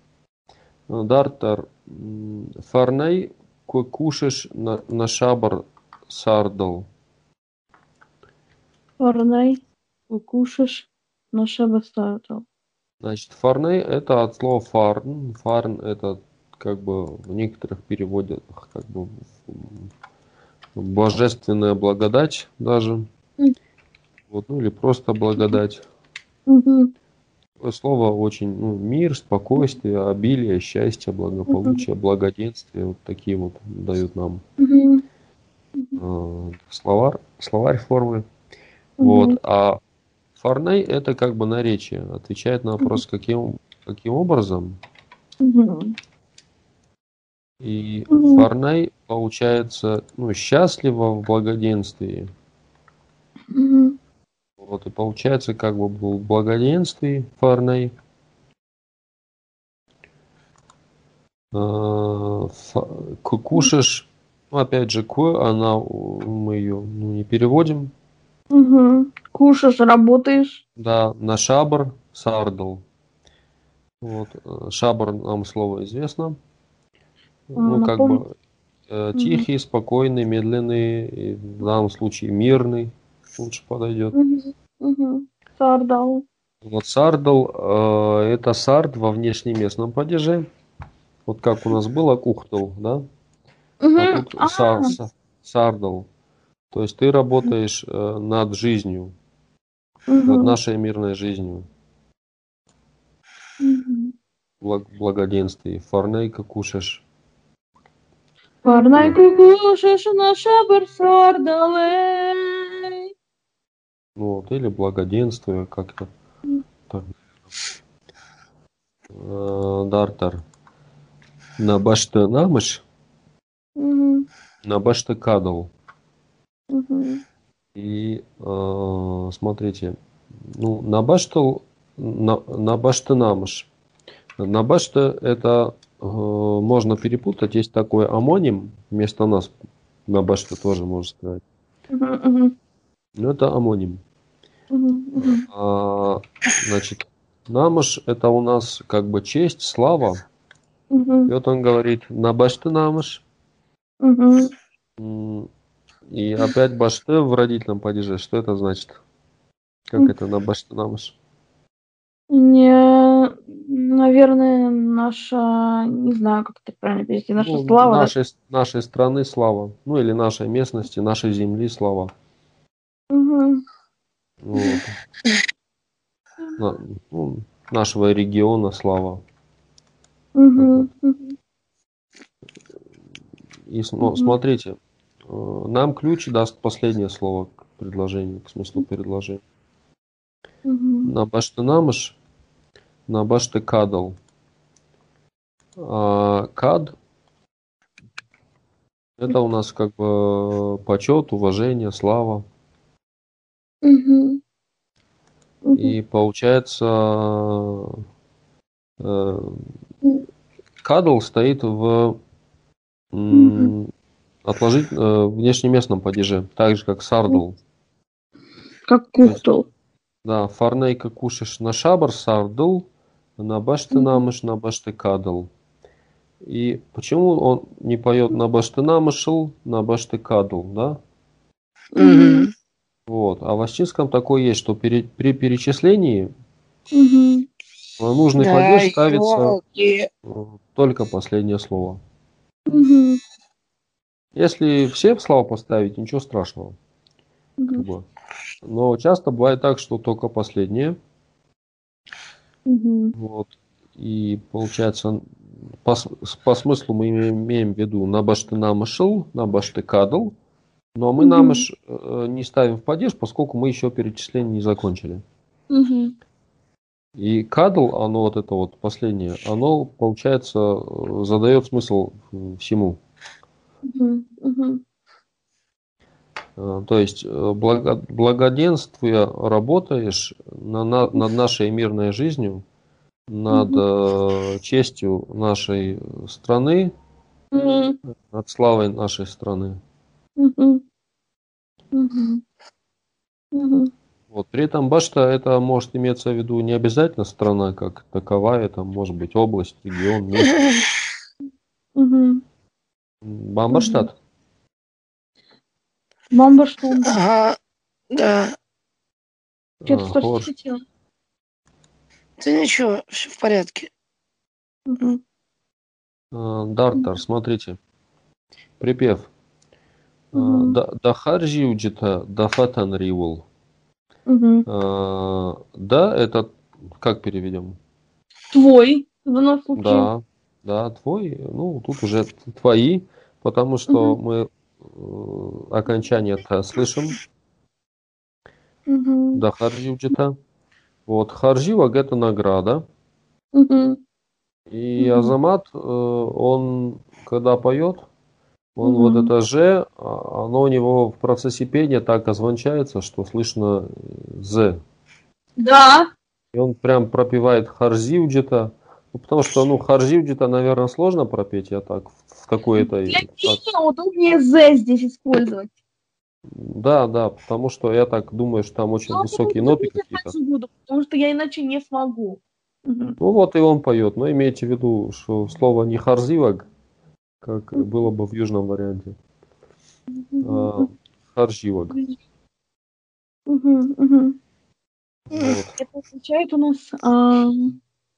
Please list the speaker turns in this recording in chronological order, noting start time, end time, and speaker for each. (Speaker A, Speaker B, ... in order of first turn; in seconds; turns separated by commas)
Speaker A: 0.9-6.9, Speaker B: 9.0-12.4, Speaker A: 13.0-19.9, Speaker A: 20.8-23.1, Speaker A: 24.3-25.8, Speaker B: 26.5-26.9, Speaker A: 27.6-34.4, Speaker B: 31.5-31.8, Speaker B: 34.6-35.0, Speaker A: 36.0-38.2, Speaker B: 39.0-39.4, Speaker A: 39.0-39.8, Speaker A: 40.4-44.8, Speaker B: 45.4-46.0, Speaker A: 47.6-52.3, Speaker B: 48.1-48.5, Speaker B: 53.5-54.0, Speaker A: 54.6-57.9, Speaker A: 61.5-67.9, Speaker B: 68.5-70.6, Speaker A: 70.8-72.8, Speaker A: 74.0-76.4, Speaker A: 77.5-78.3, Speaker B: 77.6-78.2, Speaker A: 78.9-84.2, Speaker B: 79.2-79.5, Speaker B: 84.1-86.2, Speaker A: 86.6-90.5, Speaker A: 91.3-93.0, Speaker B: 93.8-94.9, Speaker A: 94.0-96.1, Speaker A: 96.7-99.1, Speaker B: 100.1-100.5, Speaker A: 100.3-101.7, Speaker B: 103.6-104.1, Speaker A: 104.6-107.0, Speaker B: 108.7-113.0, Speaker A: 114.2-116.1, Speaker A: 116.9-117.2, Speaker A: 119.2-120.4, Speaker A: 121.6-122.8, Speaker B: 123.8-124.3, Speaker A: 124.7-125.7, Speaker B: 126.7-127.2, Speaker A: 127.8-133.7, Speaker A: 134.4-139.5, Speaker A: 140.1-141.4, Speaker B: 141.9-142.5, Speaker A: 143.2-144.0, Speaker B: 144.7-145.5, Speaker A: 145.2-150.2, Speaker B: 150.9-151.3, Speaker A: 151.3-153.2, Speaker B: 154.0-154.5, Speaker A: 155.0-155.5, Speaker A: 156.1-159.0, Speaker A: 159.9-161.2, Speaker B: 162.3-168.1, Speaker A: 167.4-172.1, Speaker B: 173.1-173.6, Speaker A: 174.4-174.9, Speaker B: 174.6-174.8, Speaker A: 176.6-179.2, Speaker B: 180.3-181.3, Speaker A: 180.6-180.9, Speaker A: 183.7-189.4, Speaker B: 184.1-184.3, Speaker B: 190.7-191.1, Speaker A: 191.1-192.2, Speaker A: 193.1-194.2, Speaker A: 195.8-196.9, Speaker A: 199.2-202.4, Speaker B: 203.8-204.4, Speaker B: 205.7-205.9, Speaker A: 205.8-208.0, Speaker A: 209.0-209.7, Speaker A: 210.8-212.2, Speaker A: 213.1-213.9, Speaker B: 213.3-213.7, Speaker A: 214.4-217.6, Speaker B: 218.9-219.7, Speaker A: 220.2-222.9, Speaker A: 223.4-225.5, Speaker B: 223.9-224.2, Speaker A: 226.4-231.0, Speaker B: 232.0-232.5, Speaker C: 232.0-232.5, Speaker A: 233.1-236.3, Speaker B: 236.9-237.5, Speaker A: 238.0-239.6, Speaker C: 238.4-240.1, Speaker A: 240.2-242.0, Speaker B: 242.7-243.2, Speaker A: 244.3-246.8, Speaker B: 247.6-247.9, Speaker A: 247.8-248.1, Speaker A: 248.6-251.0, Speaker B: 252.7-253.2, Speaker A: 253.2-255.2, Speaker A: 255.8-260.3, Speaker A: 261.0-265.2, Speaker B: 261.2-261.6, Speaker B: 265.7-266.1, Speaker A: 267.2-273.0, Speaker B: 273.9-274.8, Speaker A: 276.6-282.6, Speaker A: 283.3-286.9, Speaker B: 283.5-283.8, Speaker B: 287.5-288.0, Speaker A: 288.1-289.8, Speaker B: 290.4-290.8, Speaker B: 291.9-292.4, Speaker B: 293.5-293.9, Speaker A: 294.3-300.7, Speaker B: 301.9-302.4, Speaker A: 303.2-304.1, Speaker B: 303.7-304.1, Speaker B: 306.3-307.2, Speaker C: 307.0-307.6, Speaker C: 308.1-308.6, Speaker A: 309.8-310.5, Speaker B: 309.9-310.8, Speaker C: 312.4-313.9, Speaker B: 314.9-315.2, Speaker A: 316.3-317.8, Speaker A: 318.8-319.3, Speaker A: 320.3-323.4, Speaker B: 320.4-320.8, Speaker B: 324.3-324.7, Speaker A: 324.7-327.8, Speaker B: 328.5-330.1, Speaker A: 329.8-337.2, Speaker B: 333.9-334.2, Speaker B: 338.9-339.4, Speaker A: 339.4-340.4, Speaker A: 341.1-342.8, Speaker B: 343.5-344.0, Speaker A: 344.7-348.1, Speaker B: 345.0-345.3, Speaker A: 348.8-354.8, Speaker B: 348.8-349.3, Speaker B: 355.6-356.1, Speaker A: 356.5-363.6, Speaker B: 362.8-365.7, Speaker A: 366.5-370.4, Speaker B: 369.1-373.2, Speaker A: 373.2-376.7, Speaker A: 377.4-379.1, Speaker B: 380.1-380.9, Speaker A: 380.4-382.0, Speaker B: 383.5-384.4, Speaker A: 385.3-385.8, Speaker B: 385.3-387.8